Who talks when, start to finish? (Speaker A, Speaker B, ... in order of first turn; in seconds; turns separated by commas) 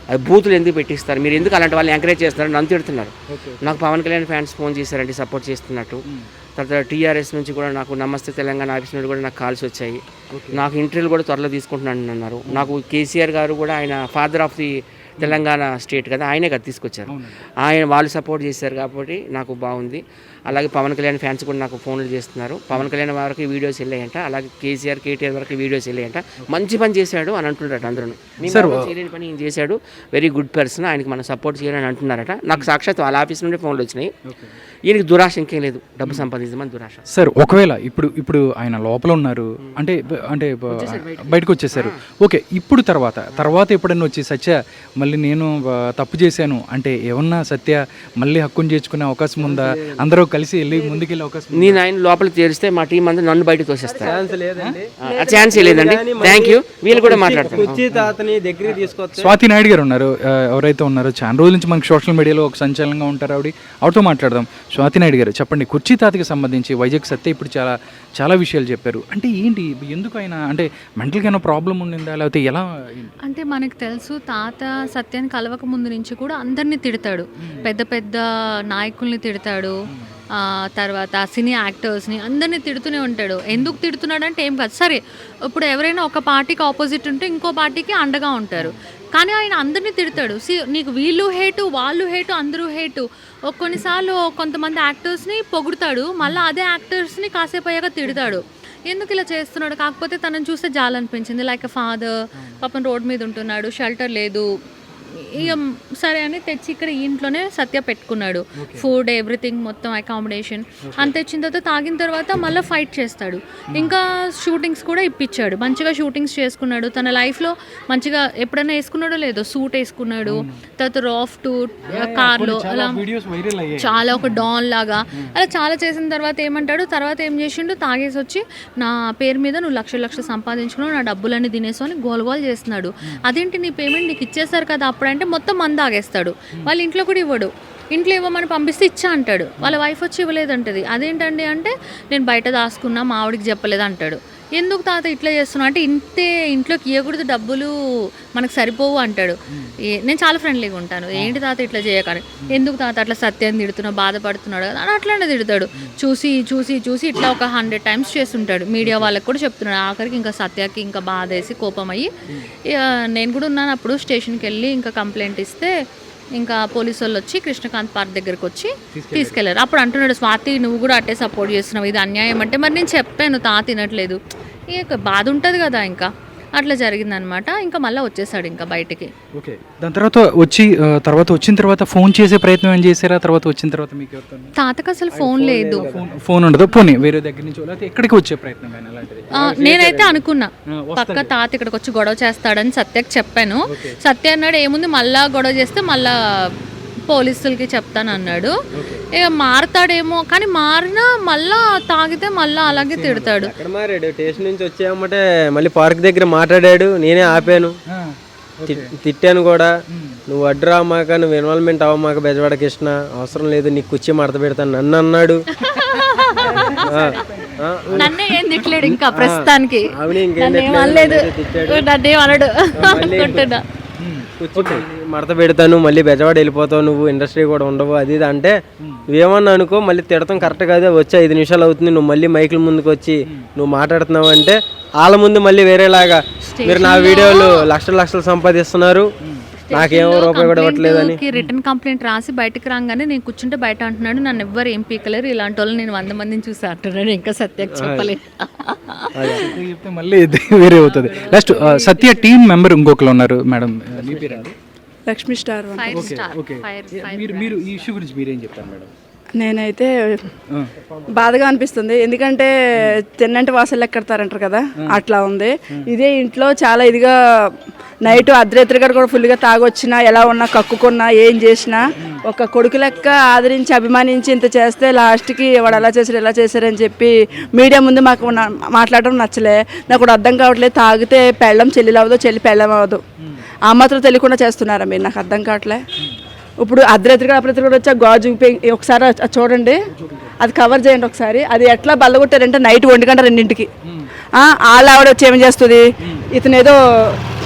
Speaker A: 0.1-6.0, Speaker B: 3.3-3.8, Speaker A: 6.6-10.0, Speaker B: 10.3-10.6, Speaker A: 10.5-34.1, Speaker B: 17.1-17.4, Speaker B: 27.9-28.9, Speaker B: 34.3-34.5, Speaker A: 34.8-37.0, Speaker B: 37.1-51.8, Speaker A: 40.8-41.9, Speaker C: 49.4-50.1, Speaker A: 51.5-54.2, Speaker D: 53.9-54.3, Speaker C: 54.0-54.9, Speaker A: 55.0-57.8, Speaker D: 55.0-55.6, Speaker C: 55.5-59.4, Speaker B: 59.1-73.1, Speaker E: 73.2-79.7, Speaker B: 77.4-77.7, Speaker E: 80.4-123.0, Speaker B: 83.5-83.8, Speaker B: 108.6-108.8, Speaker B: 110.8-111.1, Speaker B: 120.2-120.5, Speaker B: 121.9-124.5, Speaker E: 123.8-147.7, Speaker E: 148.3-149.4, Speaker E: 149.9-162.1, Speaker B: 151.1-151.4, Speaker B: 158.8-159.1, Speaker E: 162.7-165.7, Speaker E: 166.4-174.2, Speaker B: 168.9-169.4, Speaker E: 174.7-179.1, Speaker B: 179.3-184.5, Speaker E: 184.6-185.9, Speaker C: 185.1-186.0, Speaker B: 185.8-190.2, Speaker E: 186.7-187.1, Speaker E: 189.3-196.1, Speaker B: 190.7-191.3, Speaker B: 193.7-194.0, Speaker E: 197.1-198.5, Speaker B: 198.1-199.0, Speaker E: 199.1-203.5, Speaker B: 202.7-203.5, Speaker C: 203.4-207.8, Speaker B: 207.9-208.9, Speaker C: 208.7-209.7, Speaker B: 209.9-210.2, Speaker C: 210.3-215.4, Speaker E: 215.6-217.2, Speaker C: 216.8-218.2, Speaker E: 217.9-223.6, Speaker C: 218.8-221.8, Speaker C: 222.7-223.5, Speaker B: 224.0-224.8, Speaker C: 224.4-228.5, Speaker C: 229.1-239.1, Speaker E: 236.4-237.7, Speaker E: 239.6-249.5, Speaker C: 239.7-241.2, Speaker C: 247.7-248.1, Speaker C: 249.1-249.5, Speaker B: 249.5-254.5, Speaker E: 250.8-252.2, Speaker D: 255.1-256.1, Speaker E: 255.7-257.6, Speaker B: 255.9-258.9, Speaker D: 259.3-260.2, Speaker D: 261.1-267.1, Speaker D: 268.0-283.0, Speaker B: 283.2-283.4, Speaker D: 283.7-285.8, Speaker D: 286.6-289.8, Speaker B: 289.9-290.3, Speaker D: 290.4-293.7, Speaker B: 293.8-294.1, Speaker D: 294.4-297.2